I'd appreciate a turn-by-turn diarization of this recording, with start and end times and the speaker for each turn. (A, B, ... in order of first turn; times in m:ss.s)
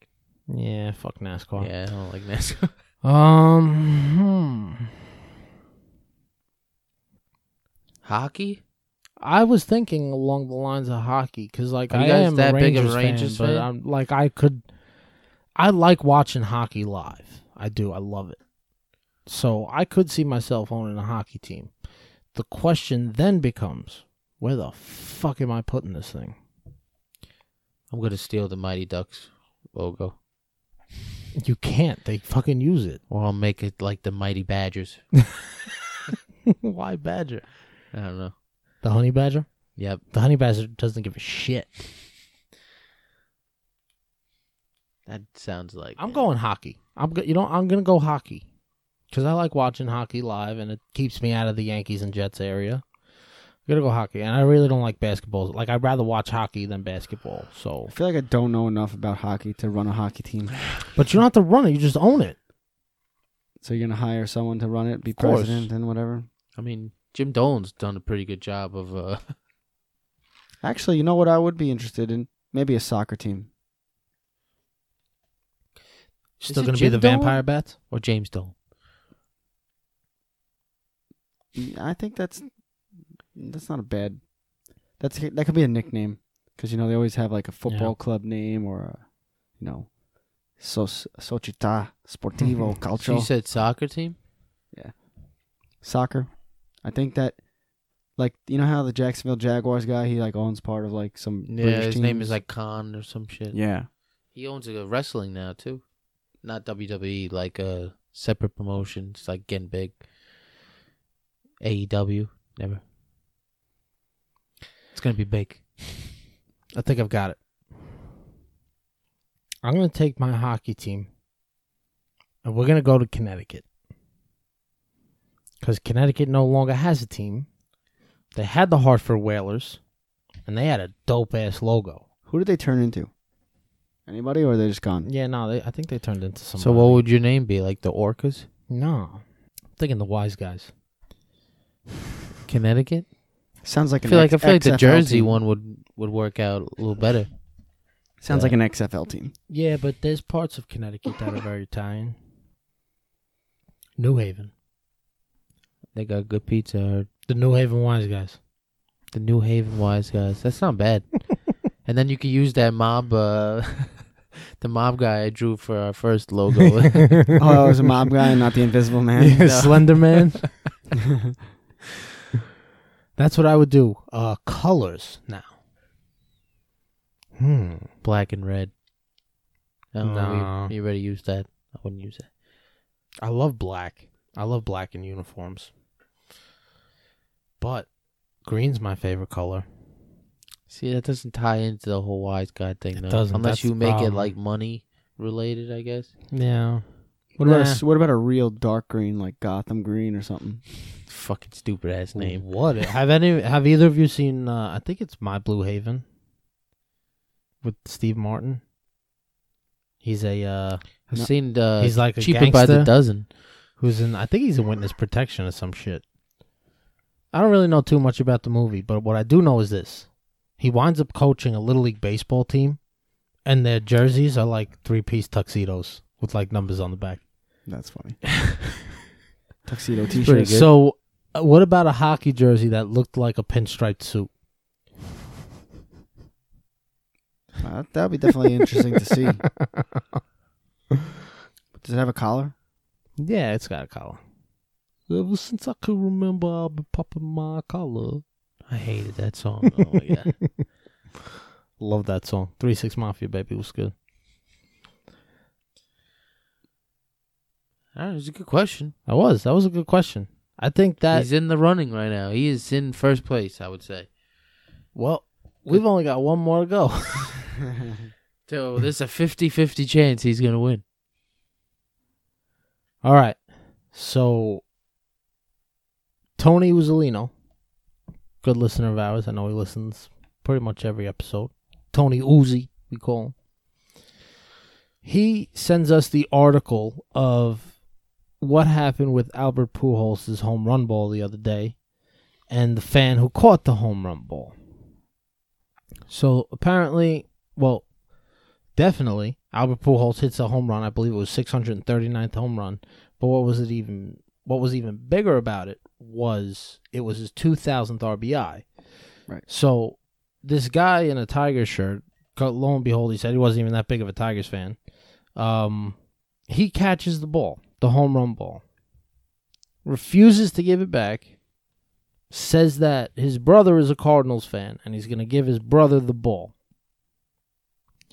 0:00.5-0:01.7 A
0:01.6-0:02.7 B
0:03.0-0:04.8 A
0:08.0-0:08.6 B
0:09.2-0:14.6 A
0:11.9-0:13.7 B
0:15.6-0:18.4 A
0:19.3-0:21.7 A
0:22.3-0:26.4 A
0:27.9-0:30.2 B
0:31.3-0:33.0 A
0:33.1-0:35.3 B
0:36.5-0:37.5 A
0:37.9-0:38.3 B
0:38.8-0:41.9 A
0:39.8-0:40.0 B
0:45.1-0:46.2 B
0:46.0-0:48.4 A
0:49.1-0:52.8 A
0:53.7-0:57.9 A
0:57.9-1:00.6 C
1:00.9-1:02.4 A
1:03.6-1:06.3 C
1:05.2-1:05.6 A
1:06.6-1:09.3 B
1:10.6-1:13.5 C
1:16.4-1:17.8 A
1:16.5-1:18.5 B
1:21.6-1:22.5 C
1:23.3-1:24.3 C
1:25.0-1:30.0 C
1:27.7-1:27.9 A
1:30.5-1:33.3 C
1:33.0-1:34.2 B
1:34.7-1:35.0 C
1:35.8-1:37.4 C
1:38.2-1:42.4 C
1:41.4-1:43.6 B
1:43.5-1:43.9 C
1:44.3-1:45.8 B
1:46.4-1:50.0 B
1:51.6-1:52.8 B
1:54.9-1:56.1 B
1:56.7-1:57.4 A
1:59.6-2:01.1 A
2:02.4-2:03.6 A
2:05.6-2:07.5 A
2:08.3-2:09.8 A
2:10.4-2:12.0 A
2:12.3-2:13.1 C
2:14.1-2:15.1 C
2:15.0-2:17.0 A
2:16.6-2:18.5 B
2:18.7-2:19.2 A
2:19.8-2:20.7 A
2:22.5-2:23.1 B
2:23.6-2:25.4 C
2:24.0-2:27.3 B
2:28.2-2:29.3 C
2:29.5-2:32.2 A
2:34.0-2:34.5 A
2:36.0-2:37.1 B
2:37.3-2:38.4 A
2:39.1-2:47.4 B
2:47.0-2:47.4 A
2:47.4-2:49.6 C
2:49.2-2:50.5 A
2:49.4-2:50.5 B
2:53.2-2:55.5 A
2:57.4-2:57.9 A
2:58.0-2:58.7 B
2:59.9-3:02.3 B
3:00.0-3:00.7 A
3:03.2-3:05.7 A
3:07.6-3:07.9 A
3:08.4-3:09.7 A
3:10.7-3:16.1 B
3:13.0-3:14.3 A
3:16.3-3:16.9 A
3:17.4-3:20.6 C
3:17.4-3:17.8 B
3:21.0-3:22.5 B
3:22.1-3:26.0 A
3:27.6-3:28.6 A
3:30.0-3:30.9 A
3:31.1-3:33.3 B
3:31.8-3:36.0 A
3:37.3-3:42.8 A
3:43.4-3:47.2 A
3:47.7-3:48.7 C
3:49.6-3:50.6 C
3:50.2-3:50.7 B
3:50.4-3:54.3 A
3:57.6-3:59.4 C
4:01.8-4:02.5 C
4:03.2-4:04.2 A
4:05.1-4:08.2 A
4:08.7-4:10.4 B
4:11.8-4:13.9 A
4:18.0-4:19.0 B
4:19.1-4:21.3 A
4:21.1-4:24.1 B
4:24.9-4:27.4 A
4:28.5-4:30.8 B
4:33.0-4:34.6 A
4:36.4-4:37.3 A
4:38.4-4:43.3 A
4:45.0-4:47.8 A
4:48.4-4:51.8 A
4:52.5-4:54.6 A
4:56.1-4:57.9 A
4:58.7-5:08.7 A
5:09.4-5:14.8 A
5:15.3-5:18.6 A
5:19.8-5:21.3 A
5:22.3-5:26.5 A